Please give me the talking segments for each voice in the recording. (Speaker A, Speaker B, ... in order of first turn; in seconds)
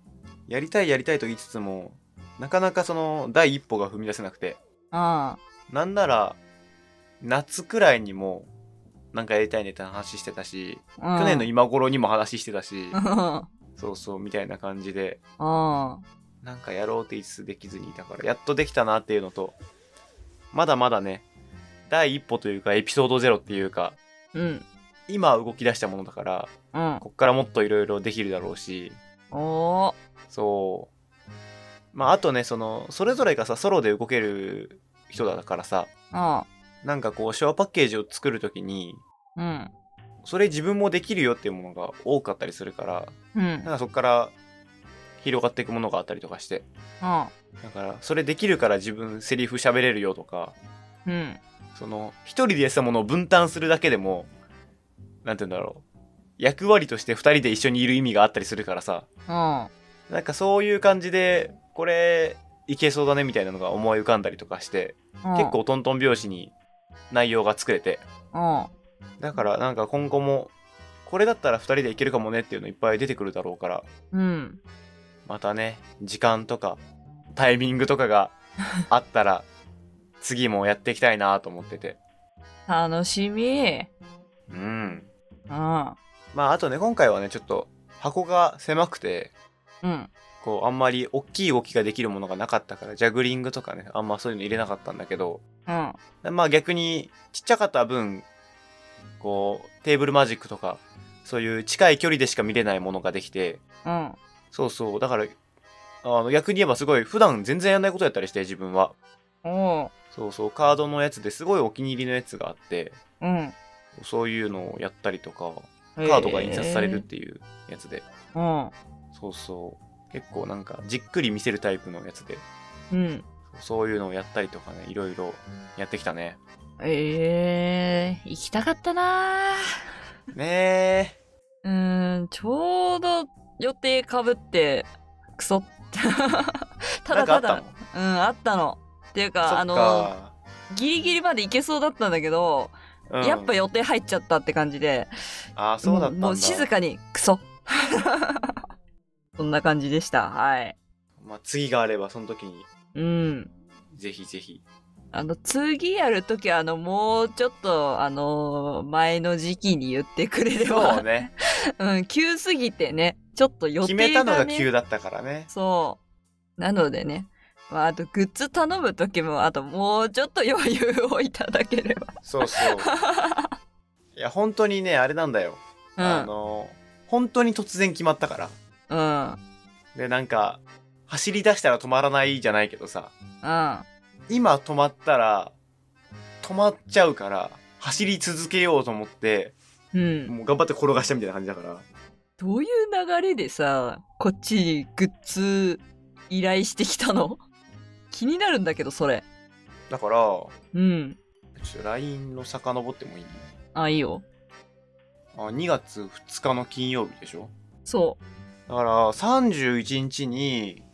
Speaker A: 0.5-4.6, 5.7-6.4, 7.2-8.5, 9.1-13.0, 13.8-15.2, 16.4-19.6, 20.5-21.2, 21.9-24.0, 25.1-29.0, 30.3-30.9, 31.9-35.9, 36.8-39.0, 40.2-43.1, 43.6-44.3, 45.2-46.6, 47.6-50.5, 51.8-54.3, 55.2-55.8, 56.4-59.1, 60.1-66.5, 67.1-68.0, 69.2-70.5, 71.1-73.9, 75.3-76.8, 77.3-78.3, 78.9-79.5, 80.2-82.0, 84.5-85.1, 86.3-89.3, 90.4-95.4, 96.2-98.3, 99.2-103.6, 104.5-105.3, 106.0-108.9, 110.1-113.0, 114.0-118.0, 119.1-122.4, 123.5-126.4, 130.3-131.2, 137.1-137.7, 139.4-140.3, 143.1-143.6, 145.6-146.7, 151.2-152.7, 153.9-154.6, 160.6-161.3, 163.8-165.5, 172.2-172.9, 174.2-178.5, 179.9-183.1, 184.3-185.5, 186.4-189.5, 190.3-191.8, 199.9-200.5, 201.6-203.4, 205.3-207.5, 208.7-210.8
Speaker B: 4.9-5.4, 11.0-11.5, 12.9-13.5, 15.4-16.0, 24.3-24.6, 26.7-27.0, 29.3-30.0, 36.1-36.5, 39.4-39.7, 43.4-43.7, 47.0-47.3, 51.1-51.4, 59.3-59.7, 65.2-65.6, 68.3-68.7, 74.1-74.6, 82.7-83.9, 85.5-86.0, 89.8-90.1, 95.7-96.0, 103.8-104.2, 109.5-109.9, 113.2-113.5, 116.0-117.1, 118.3-118.7, 122.9-123.2, 126.8-129.6, 131.6-140.1, 140.7-145.1, 145.8-148.6, 149.4-150.8, 152.9-153.5, 155.1-164.7, 165.5-166.0, 166.6-173.5, 176.0-176.3, 178.9-179.4, 183.4-183.9, 189.9-190.3, 192.4-197.4, 198.1-199.2, 200.7-201.2, 203.8-204.2, 207.8-208.2